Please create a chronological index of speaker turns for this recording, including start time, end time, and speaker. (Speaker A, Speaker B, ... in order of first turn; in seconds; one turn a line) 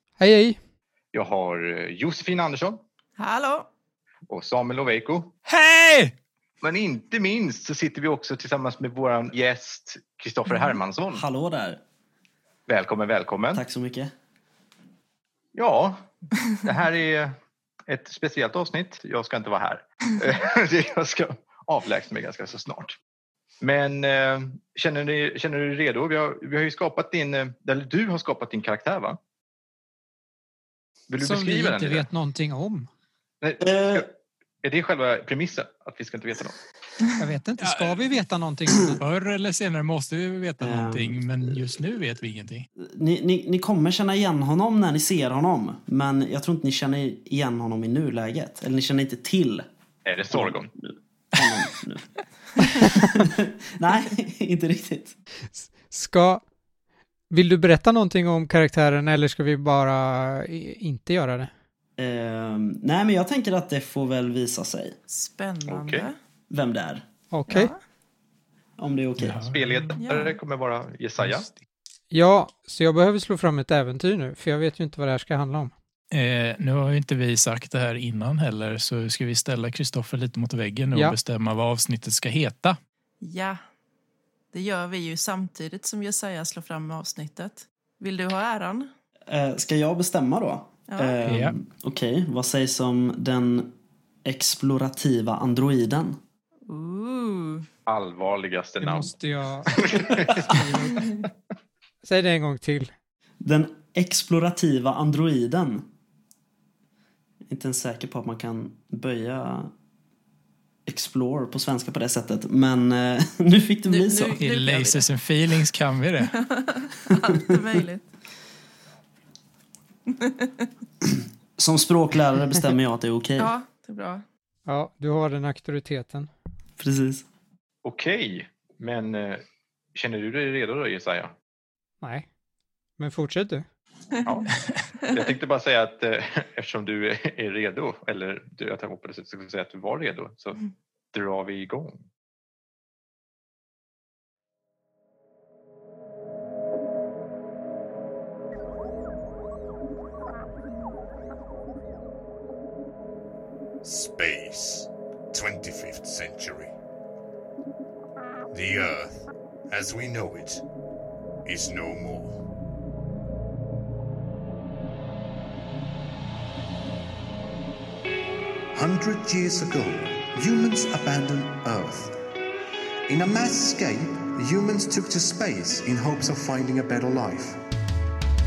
Speaker A: 0.2-0.6
Speaker B: 1.1-2.8
Speaker C: 3.2-3.7
Speaker B: 4.3-5.3
Speaker D: 5.5-6.1
Speaker B: 6.6-11.2
Speaker E: 11.1-11.8
Speaker B: 12.7-13.6
Speaker E: 13.5-14.1
Speaker B: 15.5-17.4
Speaker B: 17.9-22.9
Speaker B: 23.6-29.2
Speaker B: 31.1-32.1
Speaker A: 31.2-32.9
Speaker B: 33.4-34.1
Speaker E: 33.6-34.1
Speaker B: 34.6-36.6
Speaker A: 37.2-39.0
Speaker D: 37.6-38.0
Speaker D: 38.9-42.7
Speaker E: 40.6-41.2
Speaker E: 42.8-49.6
Speaker B: 50.0-50.7
Speaker E: 50.3-55.1
Speaker A: 55.6-56.4
Speaker A: 57.3-61.5
Speaker E: 62.0-65.0
Speaker C: 65.1-66.2
Speaker B: 65.7-66.1
Speaker E: 66.5-67.0
Speaker A: 67.3-67.7
Speaker C: 67.5-67.8
Speaker E: 68.8-69.4
Speaker D: 69.2-70.0
Speaker B: 69.5-71.5
Speaker C: 70.0-70.4
Speaker A: 72.1-75.7
Speaker D: 76.1-82.8
Speaker C: 83.2-83.6
Speaker C: 84.5-88.9
Speaker E: 89.3-93.7
Speaker C: 90.9-91.2
Speaker D: 91.2-91.5
Speaker E: 94.2-96.2
Speaker C: 96.7-97.7
Speaker B: 97.9-101.2
Speaker A: 98.8-101.1
Speaker A: 102.0-102.9
Speaker E: 103.4-105.8
Speaker E: 107.5-109.7
Speaker E: 110.8-114.4
Speaker C: 113.9-115.0
Speaker D: 114.4-116.3
Speaker C: 116.3-118.0
Speaker E: 117.1-117.5
Speaker C: 120.1-120.7
Speaker E: 121.0-123.5
Speaker C: 123.4-124.2
Speaker A: 124.7-126.3
Speaker E: 126.8-127.2
Speaker B: 127.8-129.4
Speaker B: 129.9-131.3
Speaker A: 132.0-132.3
Speaker A: 133.0-133.6
Speaker B: 134.2-134.5
Speaker B: 135.0-142.0
Speaker F: 153.8-156.7
Speaker F: 158.5-160.6
Speaker F: 161.4-162.4
Speaker G: 168.7-172.2
Speaker G: 173.1-177.6